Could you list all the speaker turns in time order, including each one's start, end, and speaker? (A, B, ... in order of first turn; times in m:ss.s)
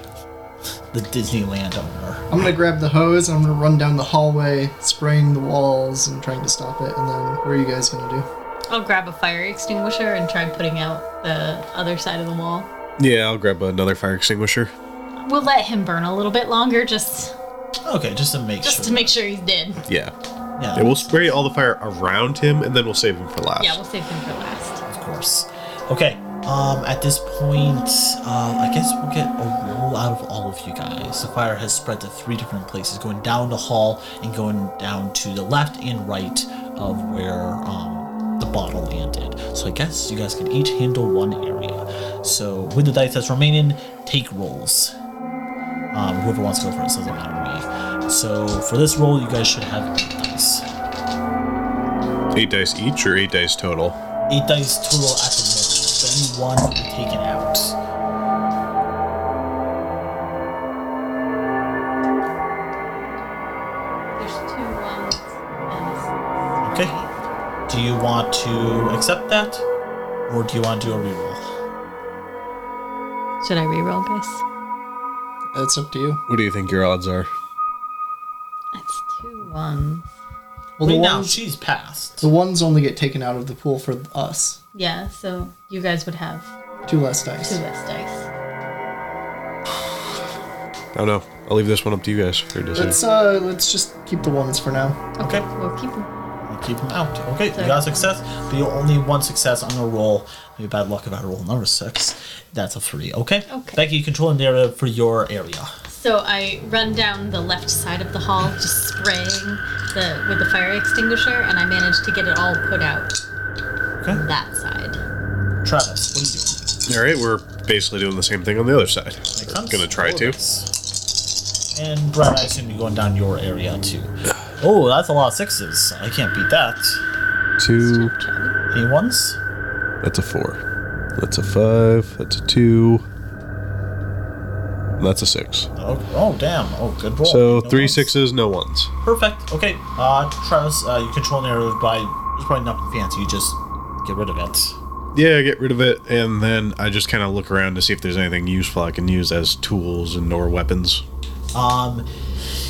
0:00.9-0:02.3 A
0:02.3-0:08.3 B
0:08.7-0:12.7 C
0:13.0-0:14.7 D
0:15.2-0:17.3 C
0:17.8-0:19.1 A
0:18.6-0:19.8 C
0:19.9-0:20.1 D
0:20.6-0:21.2 A
0:20.7-0:23.8 D
0:23.6-0:24.8 C
0:24.8-0:44.9 A
0:45.9-0:50.6 A
0:52.3-0:54.0 D
0:54.3-0:57.8 A
1:04.2-1:07.1 C
1:06.6-1:06.9 A
1:07.7-1:09.6 A
1:10.3-1:11.4 A
1:13.4-1:14.4 C
1:15.5-1:16.2 B
1:16.3-1:17.3 D
1:18.7-1:20.0 C
1:20.8-1:21.4 B
1:20.8-1:22.3 A
1:22.2-1:24.6 B
1:24.7-1:26.5 C
1:26.9-1:27.6 B
1:27.4-1:28.2 C
1:30.9-1:33.0 D
1:32.7-1:35.0 B
1:35.2-1:36.1 C
1:35.2-1:35.5 A
1:36.4-1:45.7 A
1:37.5-1:38.1 C
1:43.5-1:43.8 C
1:45.9-1:53.2 C
1:54.1-1:55.0 C
1:55.6-1:56.6 A
1:56.9-2:00.4 D
1:59.3-2:00.8 A
2:01.7-2:07.0 A
2:07.6-2:08.1 D
2:07.8-2:08.5 C
2:08.7-2:09.4 A
2:10.0-2:10.6 D
2:11.2-2:13.0 D
2:15.0-2:15.7 D
2:15.7-2:18.1 A
2:17.2-2:18.9 D
2:19.0-2:24.8 A
2:25.1-2:31.0 D
2:31.5-2:32.0 A